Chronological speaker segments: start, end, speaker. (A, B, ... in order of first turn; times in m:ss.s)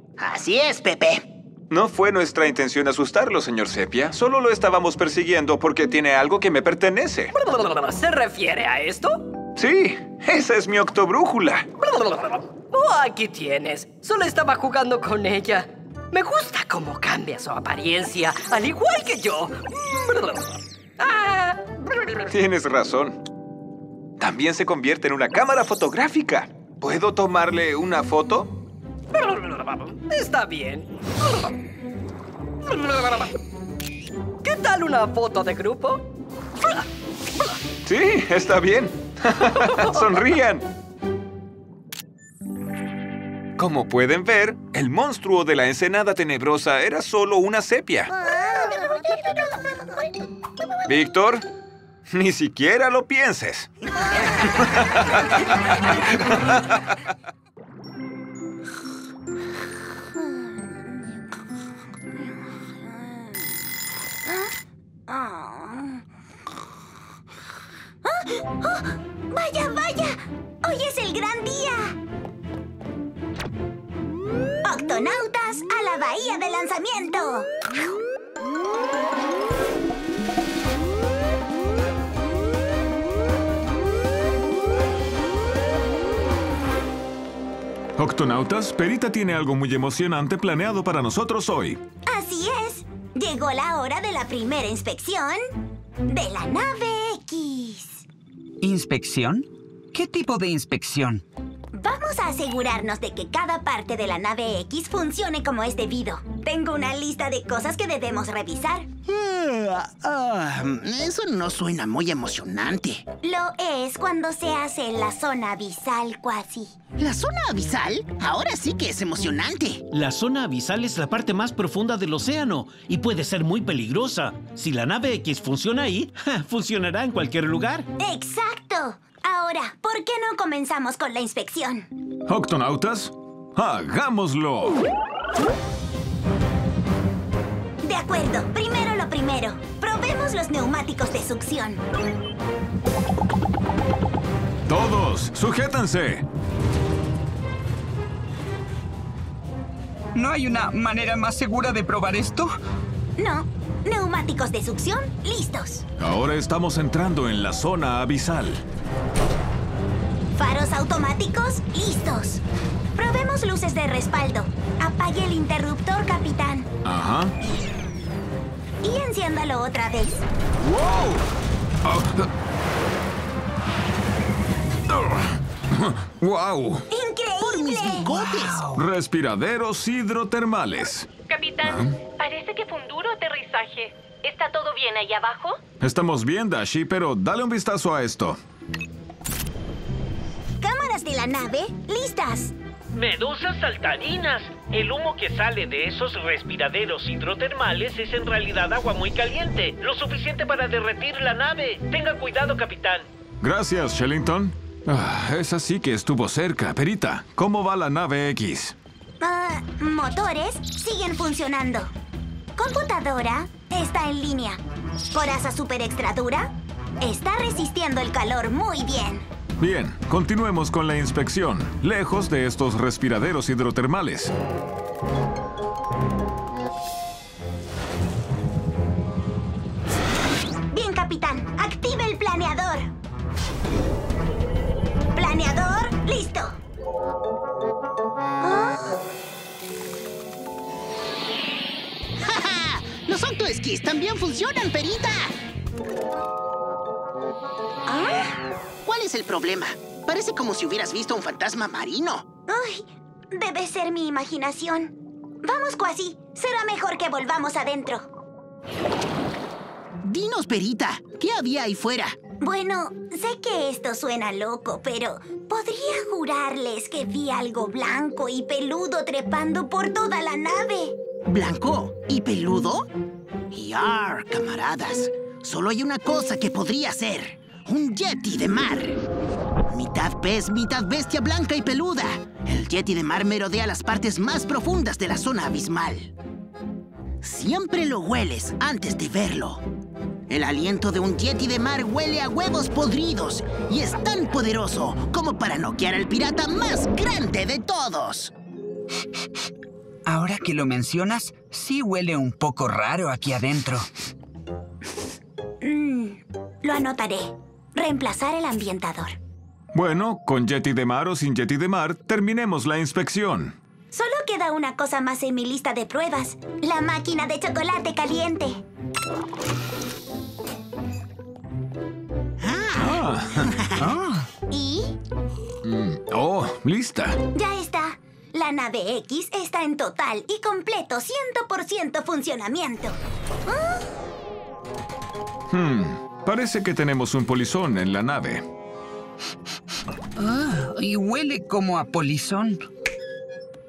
0:00.2-0:01.3 A
0:01.7-0:07.3 B
0:07.3-0:09.3 C
0:09.6-0:11.7 B
0:11.8-0:22.1 C
0:22.3-0:23.2 B
0:24.2-0:28.5 B
0:29.1-0:31.4 C
0:32.7-0:33.3 C
0:34.4-0:36.1 C
0:37.9-0:40.7 B
0:43.6-0:48.1 B
0:50.9-0:51.4 B
0:52.1-0:53.7 B
0:54.2-0:56.6 B
1:00.2-1:01.1 D
1:02.8-1:03.5 D
1:05.1-1:06.0 D
1:08.0-1:12.0 D
1:14.6-1:17.9 D
1:28.0-1:31.8 B
1:32.1-1:35.4 D
1:36.1-1:38.0 D
1:38.6-1:41.2 E
1:41.7-1:48.9 D
1:49.1-1:53.0 A
1:53.2-1:56.7 D
1:57.0-1:59.8 A
1:59.9-2:07.9 F
2:08.0-2:11.9 D
2:12.3-2:14.8 B
2:17.8-2:21.8 D
2:24.7-2:26.2 B
2:30.1-2:32.6 E
2:33.2-2:35.8 D
2:36.0-2:38.6 B
2:40.4-2:42.4 D
2:43.0-2:46.7 D
2:46.8-2:47.3 B
2:48.8-2:50.2 D
2:50.6-2:51.3 B
2:51.8-2:52.3 B
2:54.9-2:56.8 B
2:56.9-2:58.1 D
2:57.4-2:58.7 A
2:58.8-3:01.1 B
3:01.3-3:05.6 G
3:05.8-3:08.4 B
3:10.6-3:12.5 D
3:13.0-3:23.1 H
3:23.4-3:28.8 B
3:29.2-3:31.9 D
3:32.6-3:39.3 D
3:39.6-3:44.3 B
3:50.7-3:52.9 D
3:55.1-3:56.6 D
3:58.4-3:59.0 D
4:02.2-4:05.3 A
4:07.9-4:08.4 D
4:08.8-4:12.3 A
4:12.5-4:18.1 D
4:20.0-4:22.2 A
4:22.4-4:31.0 D
4:31.2-4:32.9 A
4:33.5-4:39.0 A
4:39.7-4:46.1 A
4:47.2-4:49.6 A
4:50.3-4:58.3 A
5:00.1-5:03.9 E
5:05.6-5:09.2 D
5:09.7-5:13.6 B
5:13.9-5:18.6 D
5:22.4-5:23.9 A
5:22.8-5:23.5 B
5:24.5-5:25.0 D
5:25.6-5:27.2 B
5:27.3-5:33.8 D
5:35.5-5:38.4 B
5:40.2-5:42.7 E